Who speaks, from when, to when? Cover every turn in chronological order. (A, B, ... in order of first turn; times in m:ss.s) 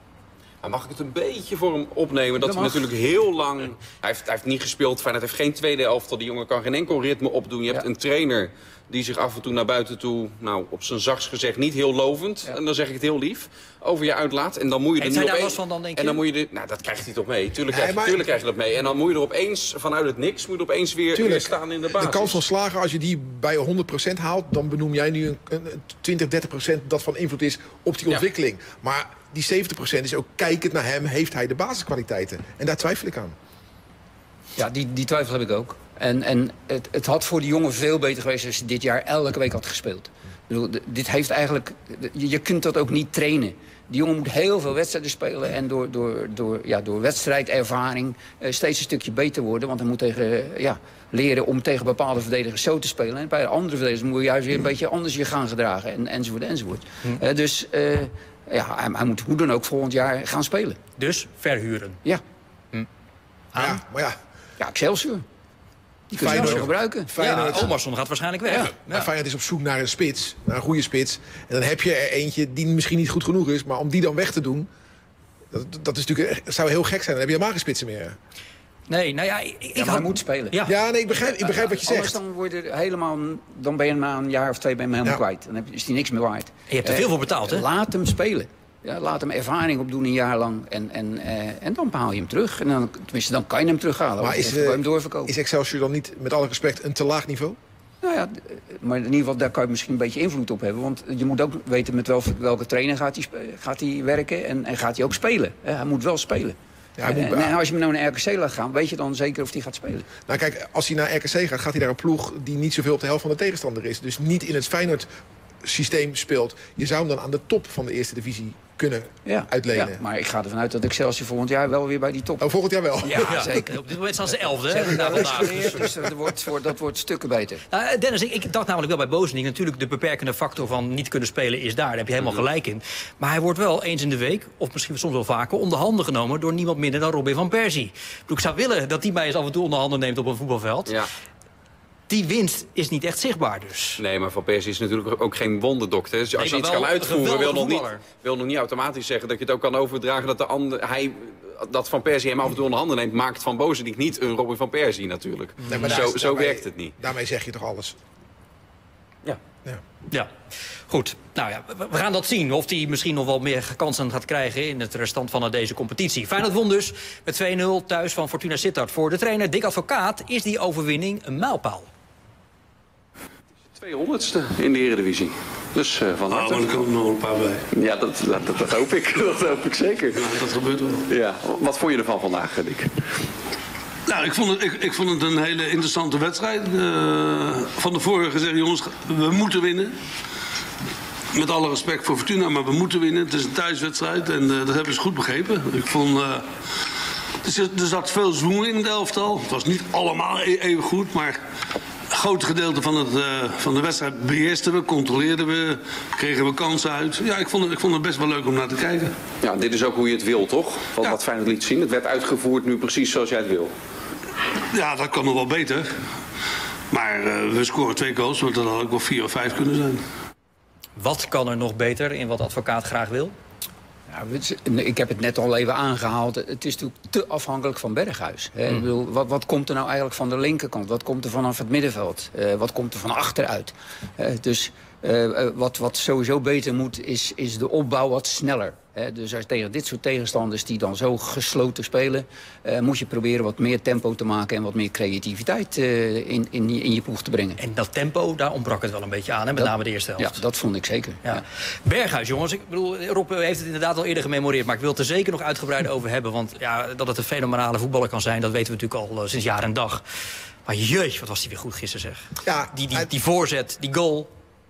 0:00.6-0:22.4 A
0:02.4-0:02.8 B
0:15.0-0:16.2 C
0:17.7-0:18.3 D
0:21.1-0:33.4 D
0:34.6-1:00.8 B
1:01.0-1:02.0 C
1:03.5-1:03.8 C
1:03.6-1:04.2 D
1:04.6-1:05.2 B
1:06.1-1:07.1 B
1:06.2-1:07.8 D
1:06.2-1:09.1 C
1:08.5-1:14.7 D
1:15.5-1:18.2 D
1:18.9-1:20.8 C
1:19.8-1:20.6 B
1:20.6-1:22.2 D
1:21.3-1:35.3 B
1:26.7-1:27.7 C
1:34.2-1:37.6 D
1:38.0-1:50.1 B
1:47.0-1:47.6 D
1:50.3-1:55.1 D
1:55.6-2:00.0 D
1:59.3-2:02.5 B
2:02.4-2:03.6 D
2:03.0-2:03.8 B
2:03.2-2:05.9 C
2:04.7-2:07.6 B
2:07.7-2:21.0 C
2:22.1-2:24.0 C
2:24.0-2:37.0 A
2:26.4-2:28.0 C
2:35.6-2:36.0 C
2:35.7-2:38.0 D
2:40.9-2:51.9 C
2:53.8-2:56.7 A
2:56.3-2:57.7 E
2:57.7-3:00.3 A
3:00.1-3:01.0 E
3:01.1-3:03.0 A
3:04.1-3:10.0 E
3:11.3-3:16.6 E
3:17.4-3:21.4 E
3:22.1-3:29.1 E
3:29.4-3:33.7 A
3:34.7-3:36.1 E
3:36.9-3:40.0 E
3:41.0-3:43.3 C
3:44.1-4:07.6 B
4:07.6-4:10.4 C
4:09.6-4:11.4 B
4:11.2-4:20.0 C
4:20.7-4:24.3 C
4:22.4-4:23.1 D